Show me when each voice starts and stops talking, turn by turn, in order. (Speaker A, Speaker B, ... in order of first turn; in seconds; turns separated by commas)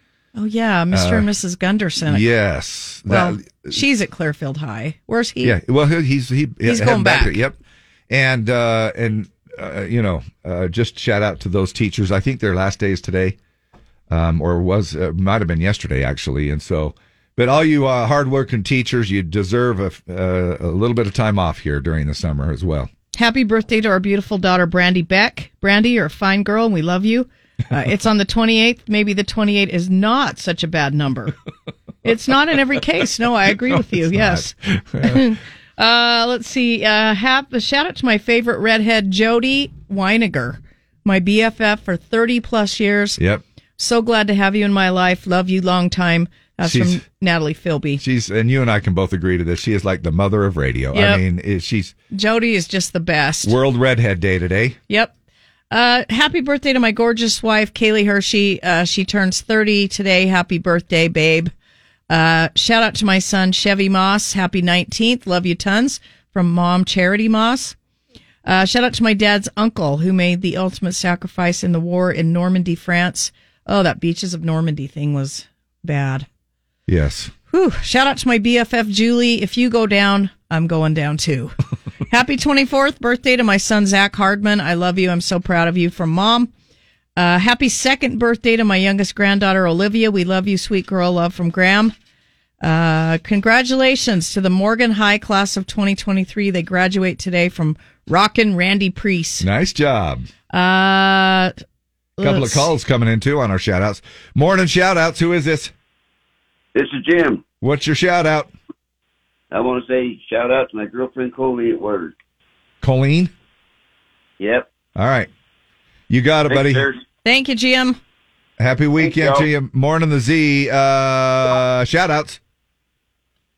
Speaker A: 0.3-2.3, Speaker B: 0.9-1.3, Speaker B: 2.1-3.8, Speaker A: 3.1-5.6, Speaker B: 5.4-7.6, Speaker A: 6.7-7.4, Speaker B: 8.1-13.4, Speaker B: 14.1-22.9, Speaker A: 23.1-31.3, Speaker A: 32.0-34.5, Speaker B: 33.7-35.3, Speaker A: 35.0-43.2, Speaker B: 43.2-43.4, Speaker A: 43.8-48.0, Speaker B: 46.6-47.0, Speaker B: 48.0-51.9, Speaker A: 50.9-51.2, Speaker A: 52.1-53.6, Speaker B: 53.4-54.8, Speaker A: 55.7-61.5, Speaker A: 62.1-67.8, Speaker A: 68.5-76.3, Speaker B: 76.9-77.3, Speaker A: 77.5-81.5, Speaker A: 82.1-86.5, Speaker A: 87.2-91.9, Speaker A: 92.6-99.5, Speaker B: 99.4-100.3, Speaker A: 100.5-101.5, Speaker A: 102.2-102.7, Speaker B: 102.2-105.7, Speaker C: 106.7-107.4, Speaker B: 107.6-108.5, Speaker C: 109.5-112.1, Speaker B: 112.8-113.3, Speaker C: 114.4-114.7, Speaker B: 115.0-115.3, Speaker B: 116.1-116.9, Speaker C: 116.5-117.0, Speaker A: 117.2-118.0, Speaker B: 118.6-122.4, Speaker C: 119.0-119.5